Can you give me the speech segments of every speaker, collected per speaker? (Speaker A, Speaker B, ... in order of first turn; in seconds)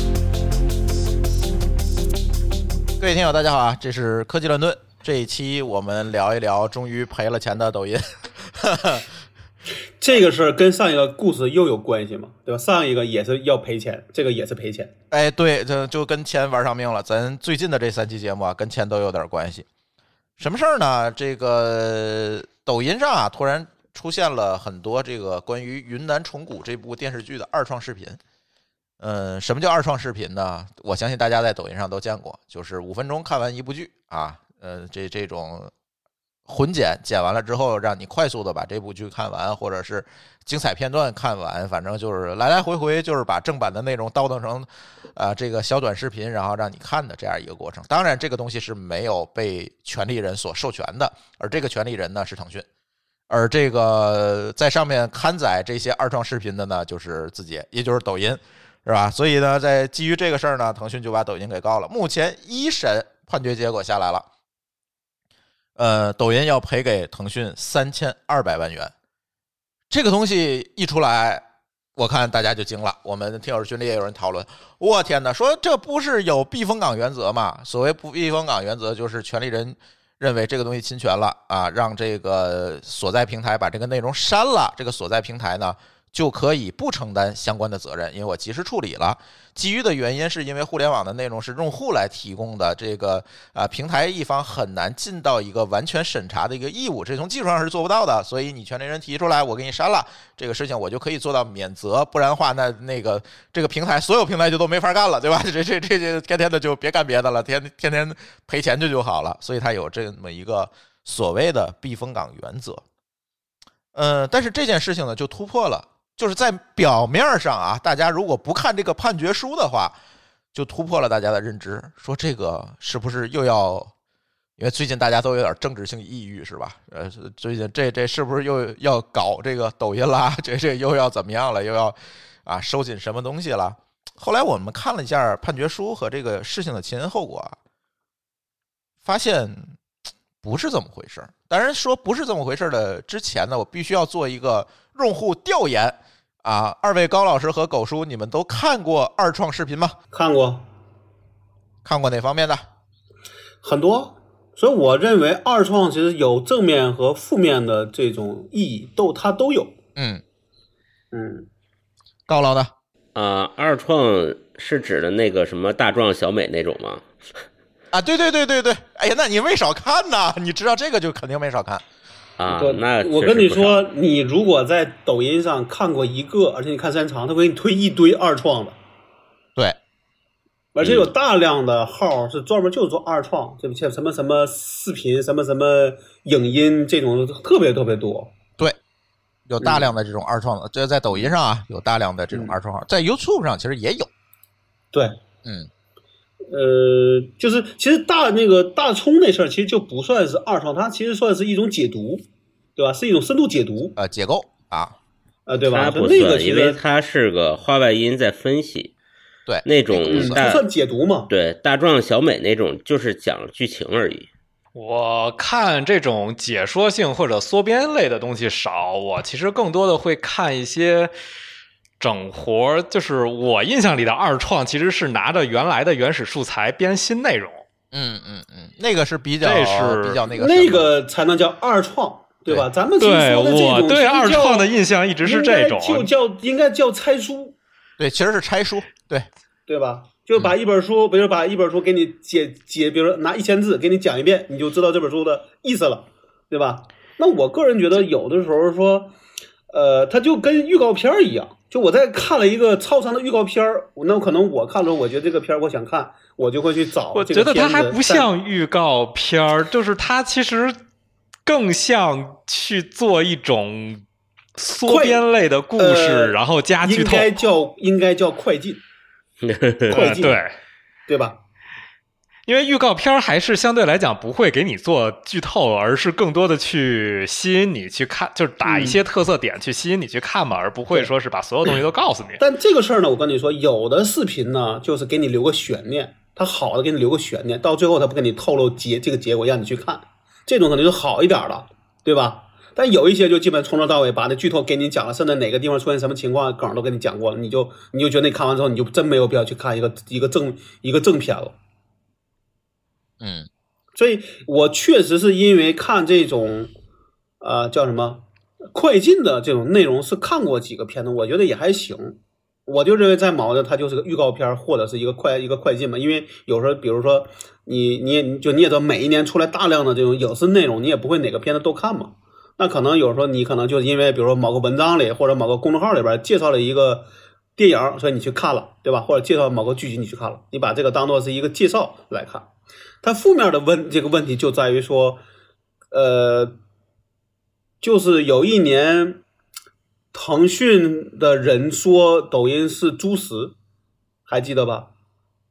Speaker A: 3.0-9.1, 15.1-19.6, 20.4-28.2, 29.0-35.7, 36.5-52.6, 53.3-64.2, 65.8-68.9, 69.9-71.4, 72.0-112.8, 113.9-120.0, 120.5-123.9, 124.6-137.6, 139.0-139.8, 140.4-150.0, 151.8-152.6, 159.9-160.2, 162.3-162.7, 167.9-171.8, 189.5-194.1, 203.9-204.9, 209.5-210.3, 227.9-230.9, 238.0-239.3, 303.2-303.5
Speaker B: 10.0-14.9, 150.1-150.7, 153.6-159.8, 161.1-161.5, 172.5-178.8, 180.7-188.3, 189.6-189.9, 196.5-202.2, 202.8-203.9, 205.4-206.8, 209.9-211.3, 230.3-234.7, 235.2-237.5, 239.7-249.1, 249.7-258.3, 264.9-268.8, 269.9-270.4, 271.1-271.4, 278.6-279.0, 282.4-301.6, 303.9-306.7, 307.4-332.5, 333.0-335.2, 335.9-336.6, 337.8-339.2, 340.1-343.5, 344.3-344.9
Speaker C: 163.1-167.4, 172.4-173.8, 180.8-181.1, 205.7-208.9, 209.6-210.7, 211.3-214.3, 269.4-270.1
Speaker D: 214.7-221.1, 222.0-227.6, 229.4-230.2, 233.0-236.1, 257.1-260.8, 261.4-264.0, 264.6-267.4, 269.9-270.5, 272.4-282.4